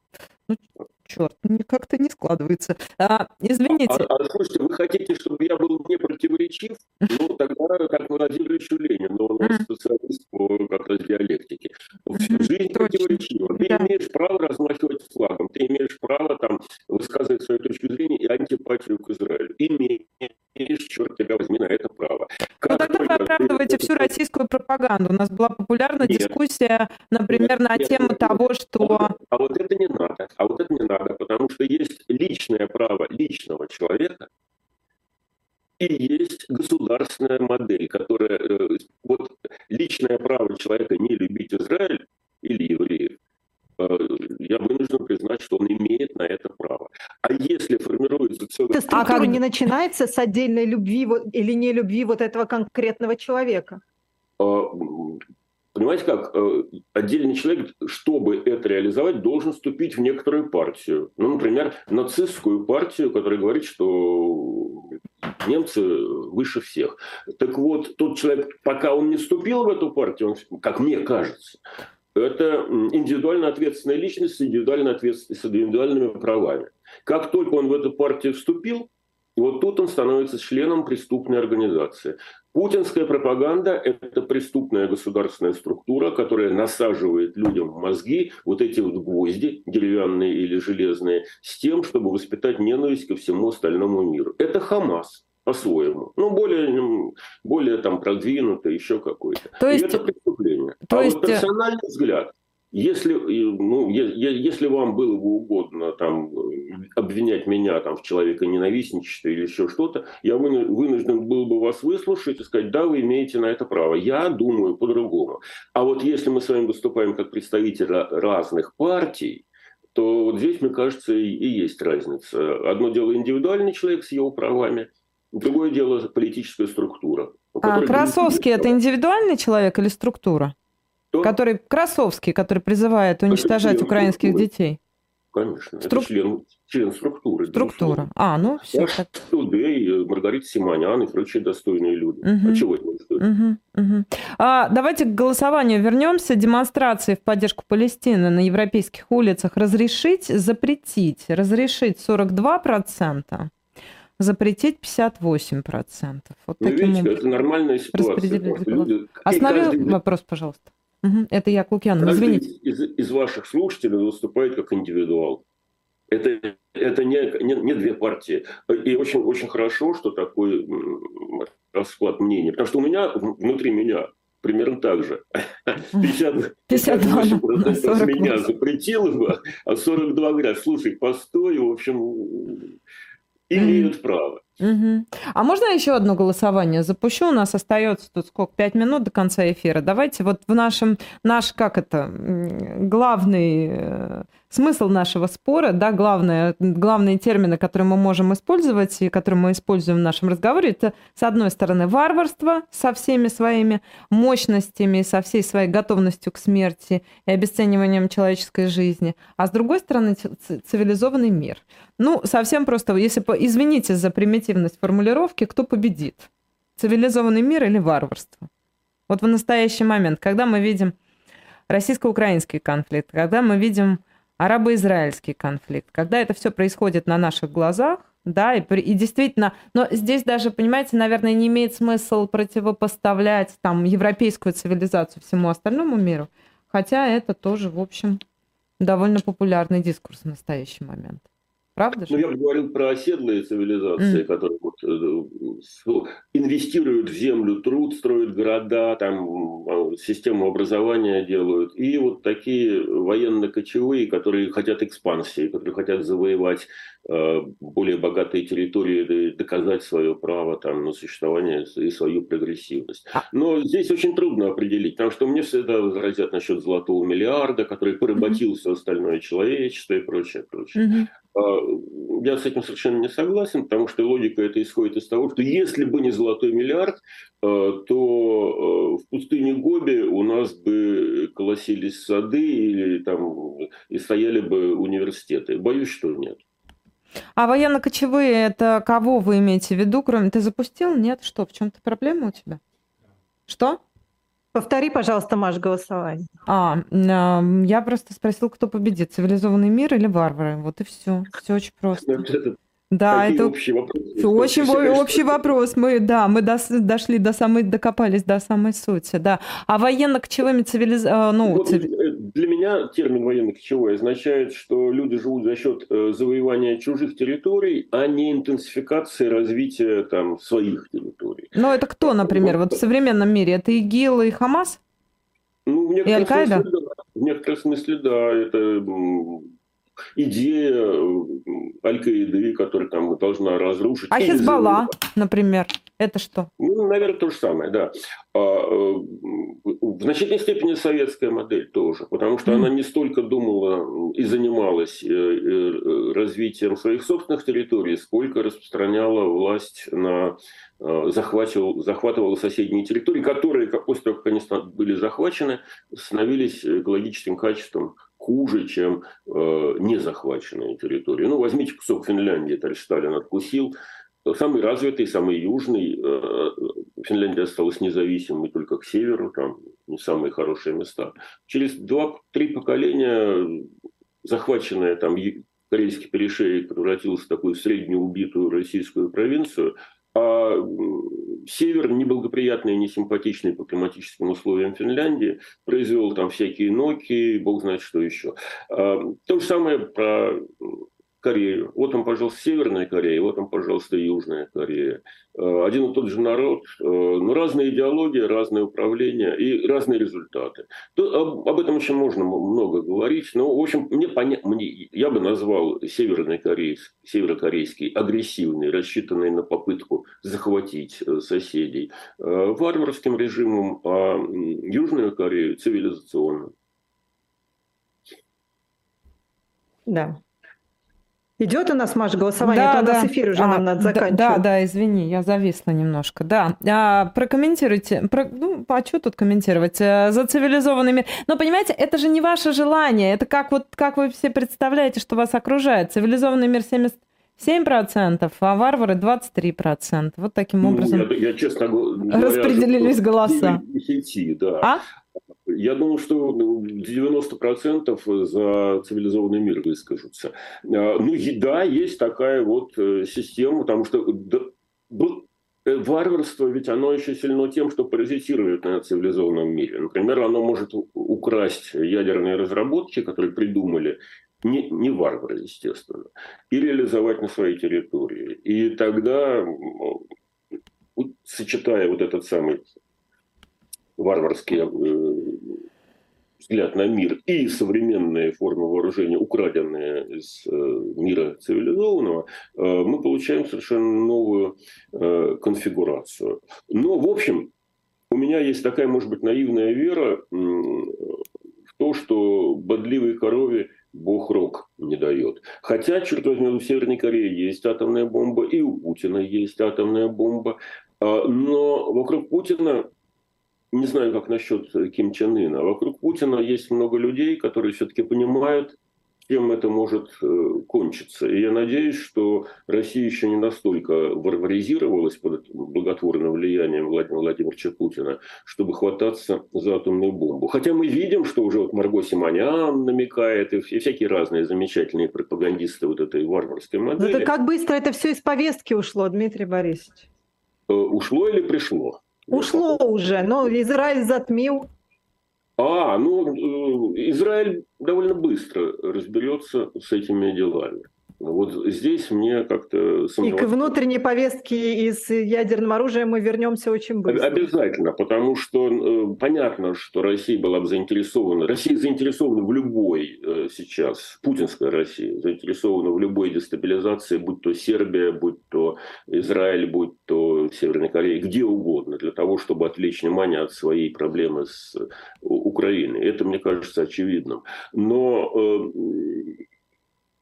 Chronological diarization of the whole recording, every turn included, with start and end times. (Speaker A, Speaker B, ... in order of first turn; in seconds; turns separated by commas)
Speaker A: 0.5-4.1, Speaker B: 3.7-24.1, Speaker A: 12.2-13.9, Speaker A: 22.6-29.1, Speaker B: 26.0-26.4, Speaker B: 27.3-34.3, Speaker B: 35.8-43.2, Speaker B: 43.8-49.1, Speaker C: 48.7-53.8, Speaker A: 48.9-49.4, Speaker B: 54.4-55.2, Speaker B: 55.7-71.6, Speaker B: 72.1-128.7, Speaker A: 99.6-100.0, Speaker A: 100.8-101.5, Speaker A: 127.6-130.5, Speaker A: 131.2-134.8, Speaker B: 133.3-134.5, Speaker B: 135.3-138.1, Speaker A: 135.8-136.1, Speaker A: 137.5-139.1, Speaker B: 138.7-143.2, Speaker A: 142.2-142.7, Speaker A: 143.2-153.5, Speaker A: 154.2-157.2, Speaker B: 156.6-160.0, Speaker A: 157.9-162.4, Speaker B: 162.0-165.4, Speaker B: 166.1-182.8, Speaker A: 176.7-178.4, Speaker B: 183.5-184.4, Speaker A: 183.6-183.9, Speaker A: 184.6-218.5, Speaker A: 219.1-220.9, Speaker A: 221.7-238.2, Speaker A: 238.8-242.2, Speaker B: 242.1-286.4, Speaker A: 270.8-271.1, Speaker A: 287.4-292.6, Speaker A: 293.5-293.8, Speaker C: 294.5-296.2, Speaker A: 296.5-302.2, Speaker B: 301.9-302.6, Speaker A: 302.9-303.5, Speaker B: 303.1-305.5, Speaker A: 304.2-311.9, Speaker B: 311.4-322.8, Speaker A: 321.5-324.8, Speaker B: 325.6-329.5, Speaker A: 326.1-326.6, Speaker B: 330.1-334.9, Speaker A: 334.1-336.5, Speaker B: 336.6-363.7, Speaker B: 364.2-373.7, Speaker B: 374.2-416.5, Speaker C: 419.9-420.2, Speaker C: 421.4-424.4, Speaker A: 422.4-441.1, Speaker B: 440.6-444.7, Speaker A: 442.1-443.6, Speaker B: 445.5-470.0, Speaker B: 470.9-472.7, Speaker B: 474.0-475.6, Speaker B: 476.4-487.5, Speaker B: 488.1-502.9, Speaker B: 503.7-527.3, Speaker C: 527.0-530.0, Speaker B: 530.7-532.8, Speaker C: 532.3-534.7, Speaker B: 535.6-543.7, Speaker C: 543.2-547.4, Speaker B: 547.1-569.4